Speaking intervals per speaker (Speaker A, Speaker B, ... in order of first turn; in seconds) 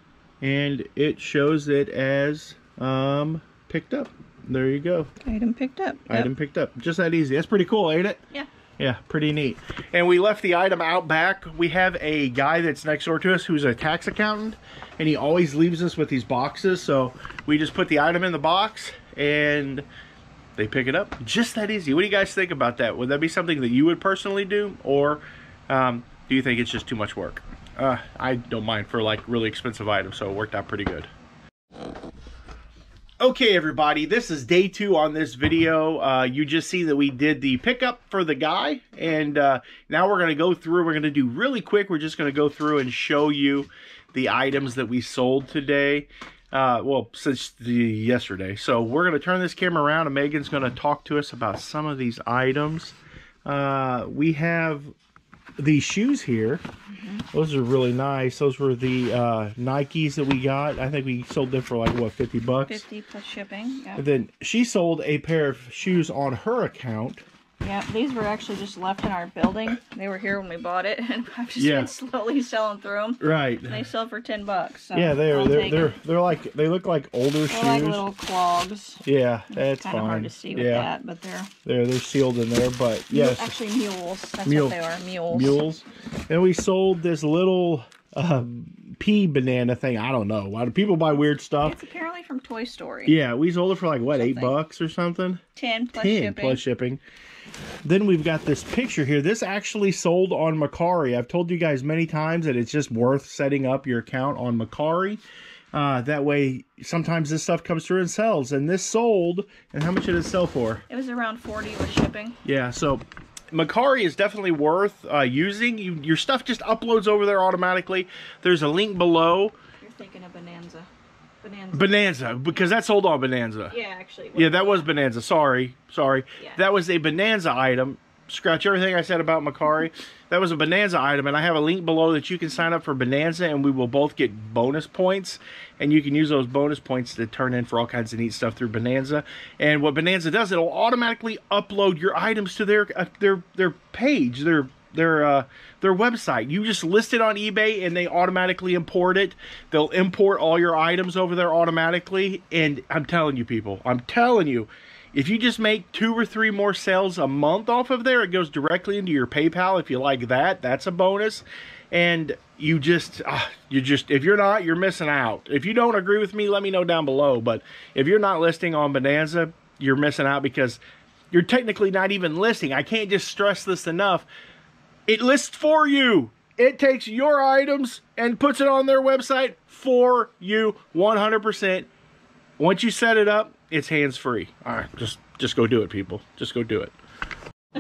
Speaker A: 0.4-5.1, 6.1-8.2, 8.8-19.9, 20.6-31.1, 33.2-52.9, 53.5-54.9, 55.6-56.6, 57.3-62.8, 64.0-67.2, 71.6-71.9, 73.2-73.8, 74.9-78.0, 79.0-80.9, 81.6-83.5, 84.4-84.8, 85.3-91.8, 93.0-95.4, 95.9-97.0, 97.8-105.2, 105.7-110.8, 112.4-119.5, 121.7-123.7, 124.3-170.8, 171.3-174.3, 175.1-181.9, 182.6-186.9
Speaker B: 5.2-6.3, 56.9-57.2, 62.7-64.0, 67.6-76.0, 77.5-81.5, 83.1-85.6, 91.6-93.2, 94.1-94.5, 95.5-96.6, 110.9-112.4, 119.8-120.9, 121.4-122.0, 123.7-124.9